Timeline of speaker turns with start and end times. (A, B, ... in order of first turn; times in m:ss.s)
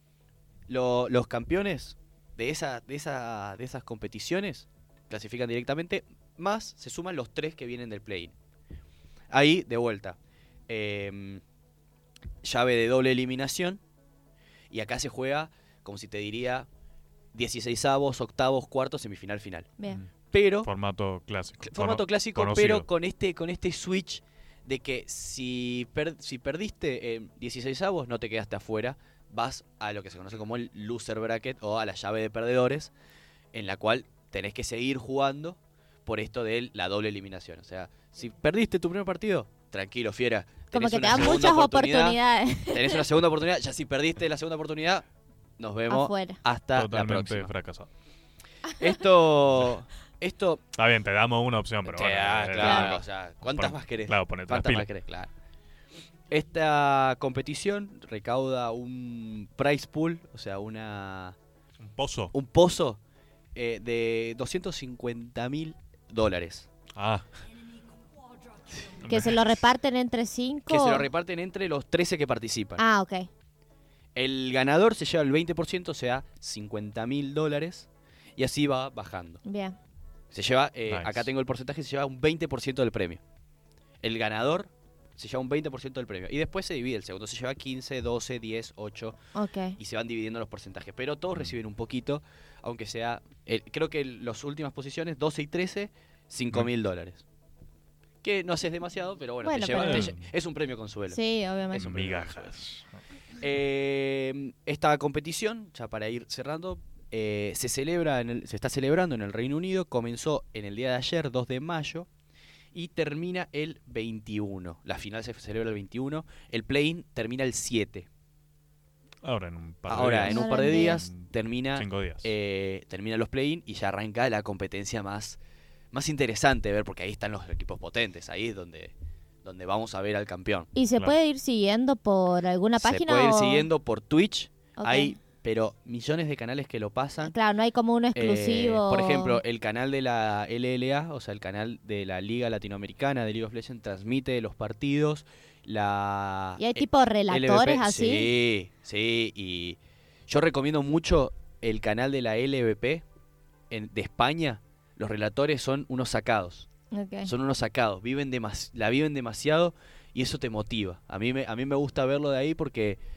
0:00.7-0:08.3 A
0:09.3-0:11.4 A
0:12.4-0:13.8 A
0:14.7-0:16.7 A
0:17.3-0:19.7 A
0:20.3-0:20.7 A
0:20.6-0:22.9 B
0:21.6-0:32.9 A
0:33.5-0:45.0 A
0:40.7-0:43.0 C
0:45.6-0:47.5 A
0:45.9-0:46.4 C
0:46.7-0:47.9 B
0:48.8-0:50.6 A
0:49.4-0:49.8 B
0:50.7-0:54.9 B
0:51.9-0:55.3 A
0:52.6-0:53.0 C
0:56.3-1:01.4 A
1:01.8-1:02.3 B
1:02.3-1:03.0 A
1:03.5-1:06.7 A
1:07.0-1:07.3 B
1:09.0-1:09.4 B
1:09.0-1:11.0 C
1:10.7-1:12.8 A
1:12.8-1:13.3 C
1:14.1-1:19.4 A
1:19.4-1:19.8 C
1:20.3-1:23.2 A
1:20.8-1:21.3 B
1:24.0-1:29.2 A
1:29.3-1:29.8 C
1:29.8-1:37.2 A
1:38.2-1:41.2 A
1:39.4-1:40.1 C
1:39.7-1:40.3 B
1:41.1-1:41.8 C
1:41.7-1:43.0 B
1:41.8-1:42.5 A
1:43.4-1:52.1 A
1:52.7-1:58.1 A
1:59.2-2:02.3 B
1:59.9-2:05.4 A
2:00.3-2:01.0 C
2:05.9-2:08.9 A
2:09.4-2:10.7 A
2:10.7-2:13.7 C
2:12.8-2:17.3 A
2:14.8-2:15.2 C
2:17.2-2:19.4 C
2:18.1-2:33.0 A
2:26.6-2:28.3 C
2:33.7-2:36.7 A
2:36.9-2:37.3 C
2:37.2-2:43.0 A